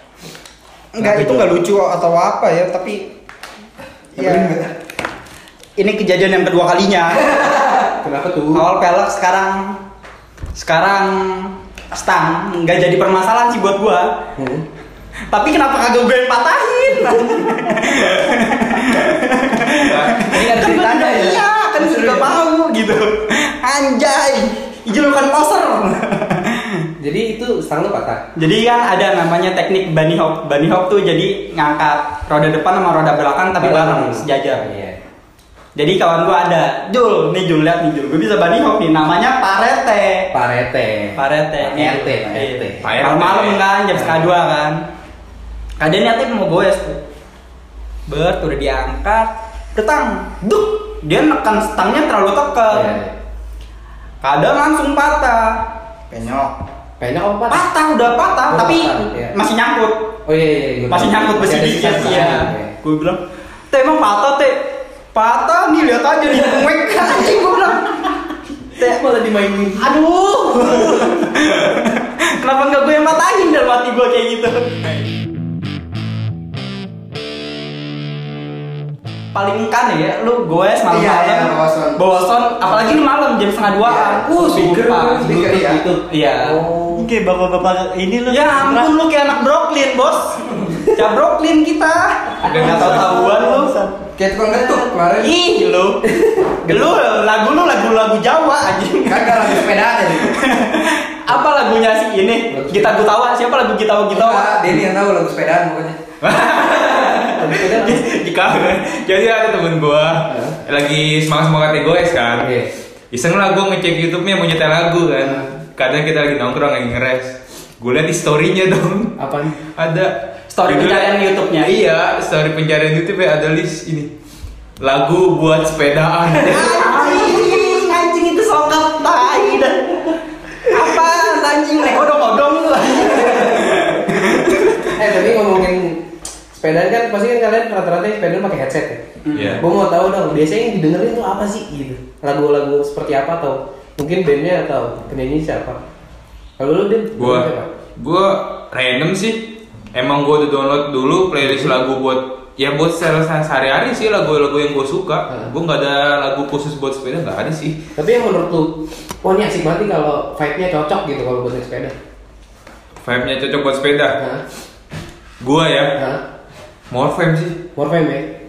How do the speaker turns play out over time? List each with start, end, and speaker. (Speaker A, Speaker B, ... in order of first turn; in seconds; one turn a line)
Speaker A: 0.9-3.1
Speaker A: 4.2-4.6
Speaker B: 4.2-4.7
Speaker A: 5.8-7.5
Speaker C: 8.0-8.7
Speaker A: 8.5-9.8
Speaker A: 10.6-14.1
Speaker C: 14.4-14.6
Speaker A: 15.3-26.9
Speaker D: 19.8-20.3
Speaker B: 20.3-22.4
Speaker C: 27.0-28.2
Speaker A: 28.4-34.6
Speaker C: 33.6-35.0
Speaker A: 35.8-40.3
Speaker C: 40.3-42.9
Speaker A: 41.2-44.8
Speaker D: 42.8-43.6
Speaker A: 45.8-47.0
Speaker A: 48.1-53.0
Speaker C: 52.7-53.1
Speaker A: 54.2-55.6
Speaker B: 56.1-56.5
Speaker C: 57.0-57.7
Speaker A: 57.5-60.0
Speaker C: 58.5-59.3
Speaker C: 60.3-62.7
Speaker A: 60.9-68.2
Speaker C: 68.8-69.9
Speaker A: 69.8-74.7
Speaker A: 79.3-85.4
Speaker B: 80.9-82.0
Speaker B: 83.8-85.8
Speaker C: 85.3-86.9
Speaker A: 86.1-86.6
Speaker E: 87.0-88.9
Speaker A: 88.3-93.7
Speaker D: 92.4-93.2
Speaker E: 92.5-94.0
Speaker B: 94.2-95.4
Speaker A: 95.2-96.0
Speaker C: 96.1-97.0
Speaker A: 96.7-104.6
Speaker B: 99.1-100.3
Speaker C: 102.5-102.9
Speaker B: 104.1-106.0
Speaker D: 106.2-112.5
Speaker C: 107.4-108.0
Speaker C: 110.3-110.6
Speaker C: 112.4-112.7
Speaker D: 113.1-124.1
Speaker C: 119.2-119.5
Speaker A: 120.5-121.8
Speaker D: 124.8-127.1
Speaker A: 126.4-134.9
Speaker C: 135.0-139.0
Speaker A: 139.2-139.6
Speaker D: 139.3-139.7
Speaker C: 139.6-145.8
Speaker C: 146.6-147.7
Speaker D: 147.2-157.8
Speaker C: 151.4-151.8
Speaker C: 158.0-161.9
Speaker D: 163.0-164.2
Speaker D: 165.4-166.0
Speaker C: 166.0-166.2
Speaker D: 166.9-167.6
Speaker C: 167.8-168.3